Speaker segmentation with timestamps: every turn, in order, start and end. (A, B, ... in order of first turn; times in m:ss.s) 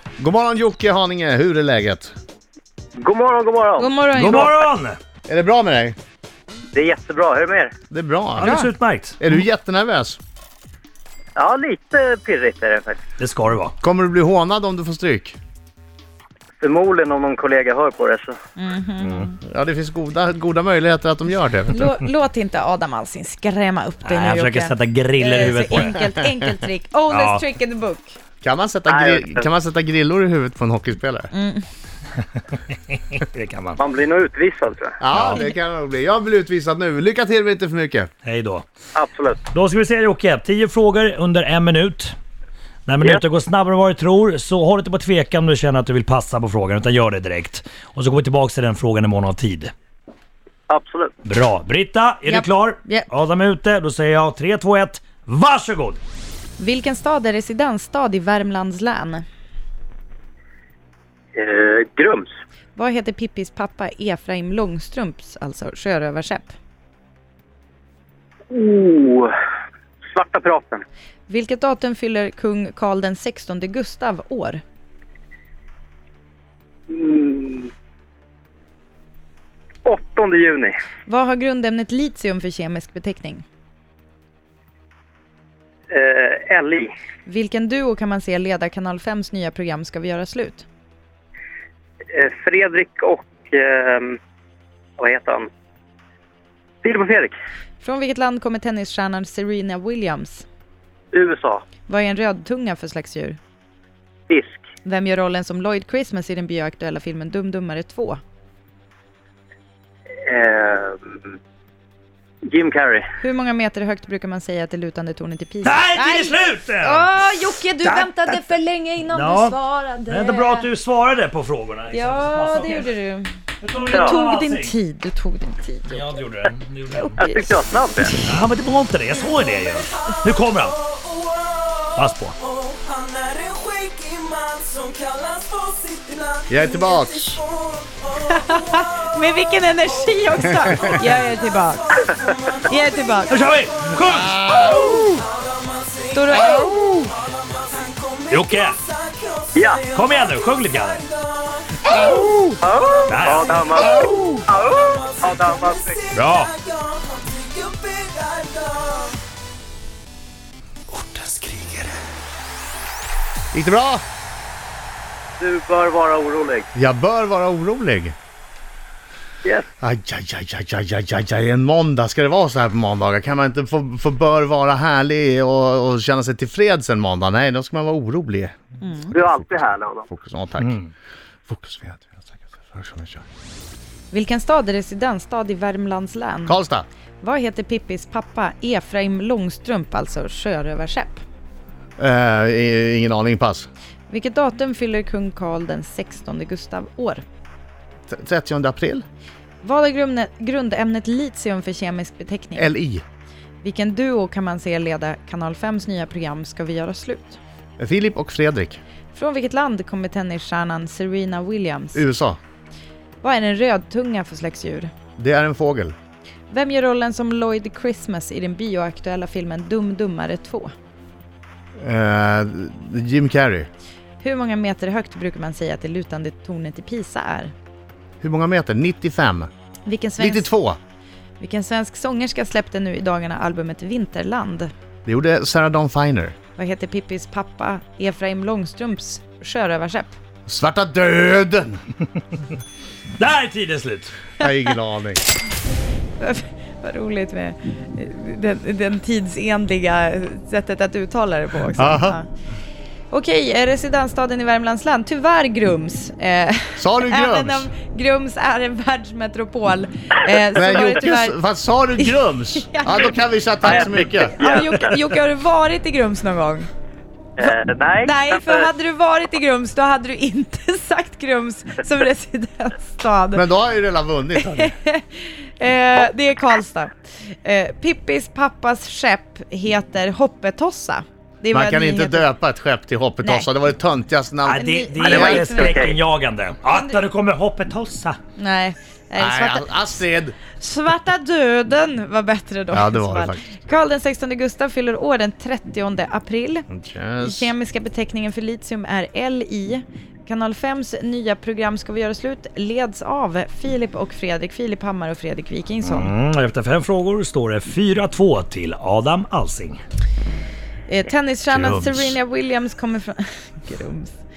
0:00.2-0:02.1 A
0:03.0-0:03.9 B
0:03.8-0:04.6 C
0:04.2-0:05.0 D
0:04.2-0:04.5 A
0:05.3-0:06.0 A
0:06.7-0:07.7 B
0:07.9-0:08.6 A
0:08.4-0:09.2 D
0:08.4-0:08.7 C
0:09.2-0:10.2 A
0:11.4-0:13.0 B
0:13.2-0:13.8 D
0:13.8-0:15.4 A
0:16.6-0:18.4 B
0:18.6-0:19.4 C
0:19.0-0:19.3 D
0:19.4-0:21.9 A
0:21.7-0:28.2 C
0:24.0-0:26.0 D
0:27.1-0:27.4 D
0:28.4-0:31.3 A
0:28.9-0:29.4 B
0:31.3-0:31.6 C
0:33.0-0:33.8 D
0:33.8-0:35.0 B
0:35.0-0:38.1 A
0:35.1-0:35.4 D
0:38.2-0:38.6 D
0:39.0-0:39.4 B
0:39.5-0:42.2 D
0:42.9-0:49.7 D
0:50.7-0:51.1 B
0:51.2-0:56.0 D
0:52.3-0:53.1 C
0:56.6-0:59.2 C
1:01.4-1:02.3 B
1:02.8-1:06.5 C
1:08.5-1:09.3 B
1:10.1-1:10.8 B
1:11.3-1:14.6 C
1:16.9-1:17.7 B
1:19.8-1:20.7 B
1:21.1-1:23.4 C
1:25.9-1:26.9 B
1:27.3-1:30.7 C
1:32.1-1:34.2 B
1:35.0-1:35.5 B
1:36.8-1:37.3 B
1:37.8-1:40.5 C
1:41.1-1:41.6 B
1:41.9-1:43.4 C
1:44.3-1:44.6 B
1:44.8-1:48.2 C
1:50.3-1:51.0 B
1:52.5-1:53.1 B
1:53.2-2:00.7 C
1:55.6-1:57.1 D
1:57.8-1:58.5 D
1:59.1-2:02.9 D
2:01.9-2:06.1 C
2:03.6-2:04.7 D
2:05.9-2:07.2 D
2:06.9-2:08.4 C
2:07.2-2:08.1 B
2:08.2-2:10.8 D
2:11.0-2:11.7 E
2:12.0-2:12.4 D
2:12.5-2:18.8 E
2:16.5-2:17.4 A
2:18.2-2:21.9 C
2:20.6-2:20.9 E
2:22.1-2:23.9 E
2:22.6-2:23.4 C
2:23.3-2:24.7 D
2:24.0-2:25.2 A
2:24.6-2:29.8 E
2:26.1-2:26.8 C
2:26.4-2:27.1 A
2:28.3-2:28.8 D
2:29.6-2:29.8 B
2:29.9-2:31.1 D
2:31.0-2:32.2 E
2:31.9-2:32.6 A
2:32.6-2:36.0 B
2:33.0-2:39.2 E
2:33.1-2:33.8 D
2:33.8-2:34.5 A
2:36.1-2:36.5 D
2:41.0-2:41.7 D
2:43.5-2:44.0 A
2:45.4-2:46.7 B
2:46.8-2:48.2 A
2:49.8-3:00.8 A
2:58.8-2:59.2 C
2:59.1-3:00.1 B
3:00.6-3:00.9 D
3:01.5-3:03.2 A
3:04.1-3:06.6 C
3:06.5-3:06.9 A
3:07.2-3:11.2 C
3:12.0-3:13.7 A
3:14.1-3:17.2 C
3:18.1-3:19.0 A
3:19.6-3:22.8 C
3:22.6-3:23.0 A
3:23.6-3:27.4 C
3:27.8-3:28.8 A
3:29.1-3:32.0 C
3:31.9-3:32.4 A
3:33.2-3:34.9 C
3:35.2-3:36.0 A
3:36.5-3:40.7 C
3:41.8-3:43.7 A
3:44.2-3:47.5 C
3:48.2-3:49.5 A
3:49.9-3:50.5 C
3:50.2-3:50.8 A
3:51.4-3:54.7 C
3:55.1-3:56.4 A
3:56.6-4:00.2 C
4:00.5-4:01.8 A
4:03.2-4:04.1 D
4:04.4-4:05.2 A
4:04.4-4:04.7 C
4:06.2-4:12.3 C
4:11.8-4:12.2 A
4:13.1-4:21.4 C
4:16.8-4:17.7 A
4:20.5-4:24.4 A
4:22.0-4:26.7 C
4:23.7-4:24.9 B
4:27.4-4:28.6 B
4:27.4-4:33.5 C
4:33.3-4:34.7 A
4:34.4-4:42.3 C
4:41.5-4:45.7 A
4:43.2-4:43.5 C
4:44.4-4:48.2 D
4:44.5-4:45.9 C
4:45.2-4:46.0 B
4:46.7-4:47.0 C
4:48.4-4:49.8 C
4:49.2-4:50.4 A
4:50.6-4:56.7 C
4:52.7-4:53.6 A
4:56.7-4:57.5 A
4:57.2-5:06.1 C
5:05.8-5:09.8 D
5:10.9-5:14.2 C
5:11.5-5:12.2 A